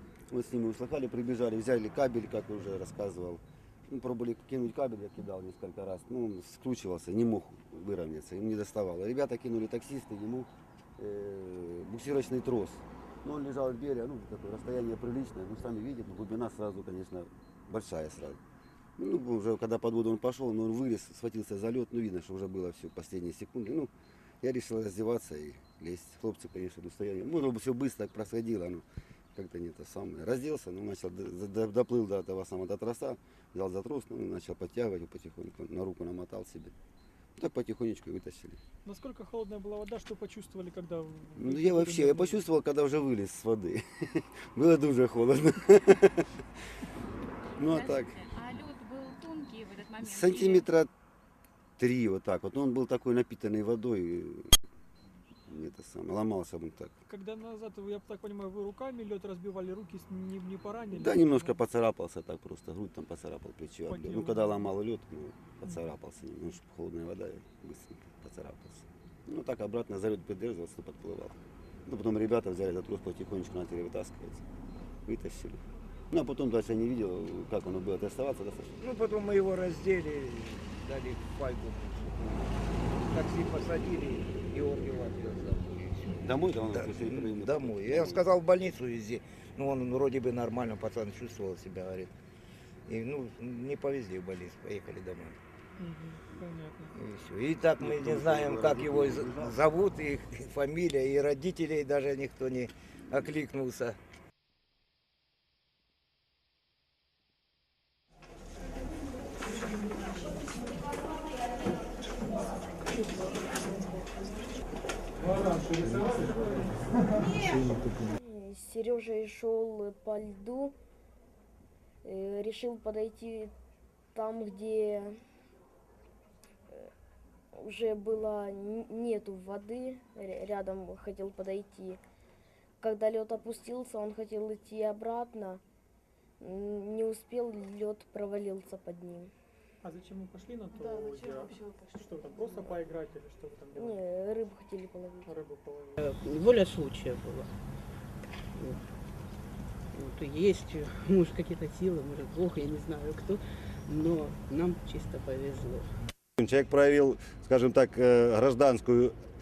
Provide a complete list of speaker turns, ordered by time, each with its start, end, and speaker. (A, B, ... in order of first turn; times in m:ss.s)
0:00.3-0:18.4 A
0:19.0-0:23.9 A
0:24.4-0:36.7 A
0:37.4-0:38.6 A
0:38.8-0:42.4 B
0:41.4-0:46.3 A
0:47.6-0:48.2 A
0:47.6-0:50.7 C
0:50.0-0:50.9 A
0:51.8-0:54.5 A
0:55.5-0:57.0 A
0:57.1-1:01.6 B
1:00.9-1:14.4 A
1:03.9-1:04.7 B
1:15.1-1:18.8 A
1:18.8-1:32.1 D
1:26.2-1:28.3 A
1:32.9-1:35.4 D
1:35.8-1:36.9 B
1:37.0-1:44.0 D
1:37.8-1:39.6 A
1:55.7-1:56.2 B
1:58.0-2:00.8 E
2:02.0-2:03.5 E
2:04.1-2:05.2 E
2:07.5-2:12.0 E
2:12.8-2:15.6 E
2:16.4-2:19.3 E
2:19.8-2:24.0 B
2:23.7-2:25.3 E
2:25.2-2:26.0 B
2:26.0-2:27.5 F
2:28.5-2:28.8 F
2:29.9-2:35.9 F
2:36.4-2:39.2 G